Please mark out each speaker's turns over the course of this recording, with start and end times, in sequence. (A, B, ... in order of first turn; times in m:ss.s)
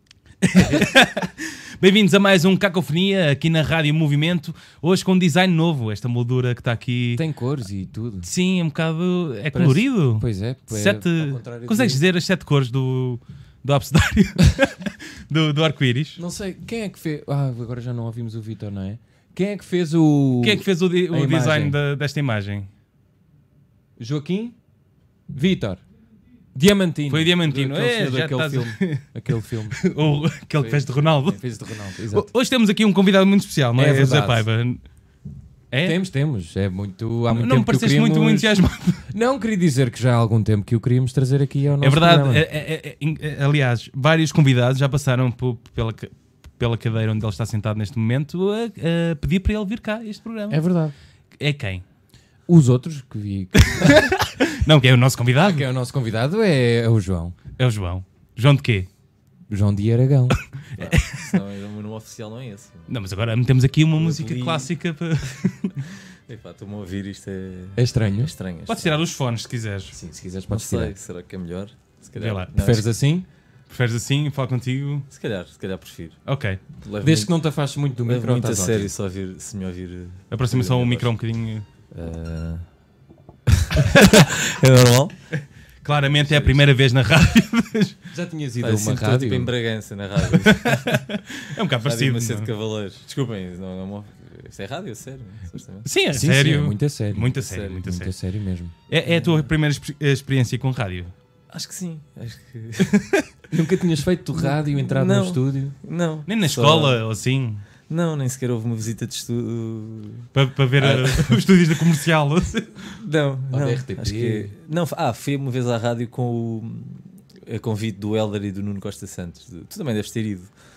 0:00.4-0:07.2 A
0:07.1-0:08.3 B
0:08.2-0:16.2 A
0:09.5-0:12.0 B
0:16.2-0:21.8 B
0:20.4-0:22.7 A
0:24.0-0:24.6 B
0:25.3-0:25.8 B
0:26.5-0:29.8 B
0:27.1-0:34.8 A
0:30.6-0:32.3 B
0:33.8-0:34.4 B
0:35.7-0:36.0 A
0:35.8-0:38.5 B
0:37.3-0:39.0 A
0:39.1-0:42.4 B
0:41.8-0:50.6 A
0:50.5-0:50.9 B
0:51.4-0:51.8 A
0:52.5-0:54.2 B
0:53.6-0:55.7 A
0:55.4-0:57.4 B
0:57.6-0:58.9 A
0:59.5-1:00.4 B
1:00.7-1:01.4 A
1:00.8-1:02.9 C
1:02.9-1:05.9 A
1:04.0-1:04.7 C
1:06.3-1:09.0 C
1:07.8-1:08.3 B
1:08.7-1:09.9 A
1:09.9-1:10.9 B
1:10.5-1:12.9 C
1:12.2-1:12.8 A
1:12.6-1:13.2 B
1:13.7-1:15.1 A
1:15.1-1:16.2 C
1:16.2-1:16.6 A
1:16.8-1:17.3 C
1:17.0-1:18.9 B
1:18.0-1:21.1 C
1:20.3-1:21.6 A
1:21.9-1:22.6 C
1:23.5-1:25.1 C
1:25.3-1:28.0 A
1:26.2-1:26.7 C
1:28.1-1:29.5 B
1:28.6-1:35.9 C
1:30.3-1:32.5 A
1:35.8-1:38.2 A
1:36.1-1:38.7 B
1:37.4-1:37.8 C
1:38.9-1:41.1 A
1:39.1-1:39.4 C
1:41.5-1:42.9 C
1:42.8-1:43.2 A
1:43.5-1:45.8 B
1:44.4-1:47.0 C
1:46.3-1:47.6 A
1:47.9-1:51.4 C
1:50.3-1:52.9 A
1:52.9-2:00.5 C
1:53.5-1:54.5 B